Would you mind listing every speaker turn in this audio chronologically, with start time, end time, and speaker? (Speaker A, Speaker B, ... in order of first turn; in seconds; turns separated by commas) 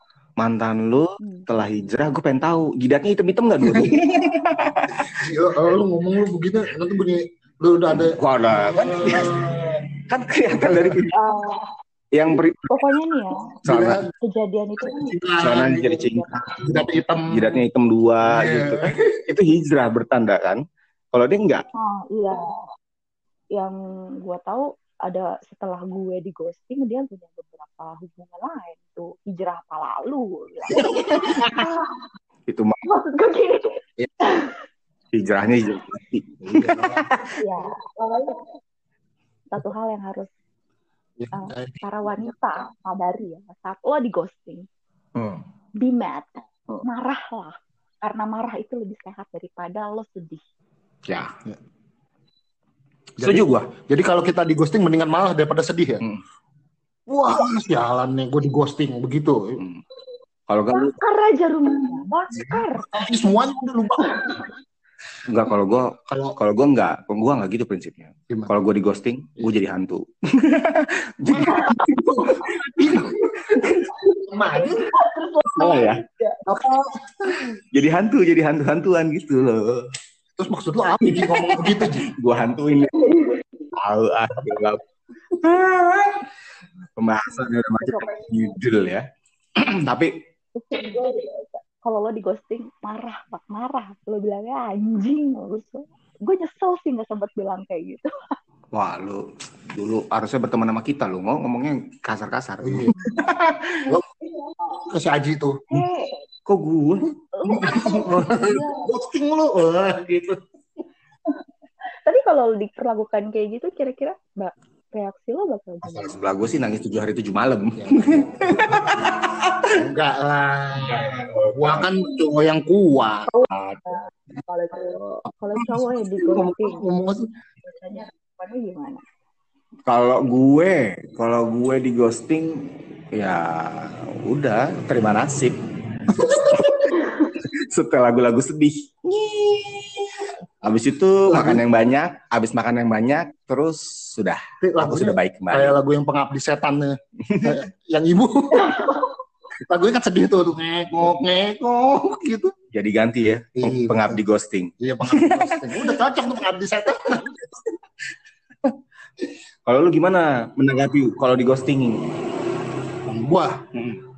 Speaker A: 0.4-5.3, Speaker B: 1.2-1.5, Speaker C: 3.6-4.0, Speaker C: 5.0-9.9, Speaker A: 7.9-11.1, Speaker C: 10.6-11.0, Speaker B: 11.1-11.7, Speaker A: 12.1-13.1, Speaker B: 12.7-13.5, Speaker A: 13.7-14.1, Speaker C: 13.7-14.1, Speaker B: 14.2-15.2, Speaker C: 14.8-16.0, Speaker A: 15.4-20.6, Speaker B: 15.8-16.4, Speaker C: 16.6-17.6, Speaker C: 18.2-19.2, Speaker A: 21.1-21.7, Speaker B: 21.8-22.6, Speaker B: 23.5-32.0, Speaker A: 30.9-31.6, Speaker A: 32.5-32.8, Speaker B: 32.8-34.6, Speaker A: 35.1-37.3, Speaker C: 36.4-37.1, Speaker B: 37.4-38.5, Speaker B: 39.5-40.3, Speaker C: 41.2-41.8, Speaker B: 41.3-44.7, Speaker A: 45.2-45.4, Speaker B: 45.8-50.4, Speaker A: 51.1-51.3, Speaker C: 53.2-56.0, Speaker A: 53.2-53.6, Speaker C: 57.1-59.6, Speaker A: 60.5-61.0, Speaker B: 60.7-63.1, Speaker C: 62.4-64.5, Speaker B: 64.0-64.5, Speaker A: 65.2-72.4, Speaker C: 66.1-66.4, Speaker C: 71.3-74.9, Speaker B: 71.5-71.9, Speaker A: 73.5-73.9, Speaker B: 74.0-76.4, Speaker A: 75.5-76.0, Speaker C: 76.5-77.6, Speaker A: 77.7-79.8, Speaker C: 80.4-82.1, Speaker A: 81.2-83.1, Speaker B: 82.9-83.6, Speaker A: 83.8-84.8, Speaker A: 85.4-86.2, Speaker A: 87.0-89.0, Speaker B: 87.8-88.6, Speaker A: 89.6-90.1, Speaker B: 90.6-98.3, Speaker A: 98.7-104.0, Speaker C: 102.6-103.0, Speaker B: 104.2-104.8, Speaker C: 104.9-105.6, Speaker B: 105.7-106.2, Speaker A: 106.5-108.0, Speaker B: 107.4-108.9, Speaker C: 107.6-110.4, Speaker B: 112.0-116.2, Speaker A: 115.8-119.7, Speaker C: 117.8-119.0, Speaker C: 119.7-123.3, Speaker A: 120.8-121.9, Speaker B: 123.3-126.9, Speaker A: 123.5-123.8, Speaker C: 126.0-127.3, Speaker B: 127.6-129.0, Speaker A: 129.9-145.8, Speaker C: 136.1-136.5, Speaker B: 137.0-137.3, Speaker C: 141.3-141.6, Speaker C: 144.6-148.8, Speaker A: 147.2-147.6, Speaker B: 148.6-149.1, Speaker C: 149.6-152.5, Speaker A: 152.7-155.8, Speaker C: 153.6-154.2, Speaker C: 154.8-157.4, Speaker A: 159.7-162.2, Speaker C: 163.0-163.7, Speaker A: 163.7-164.0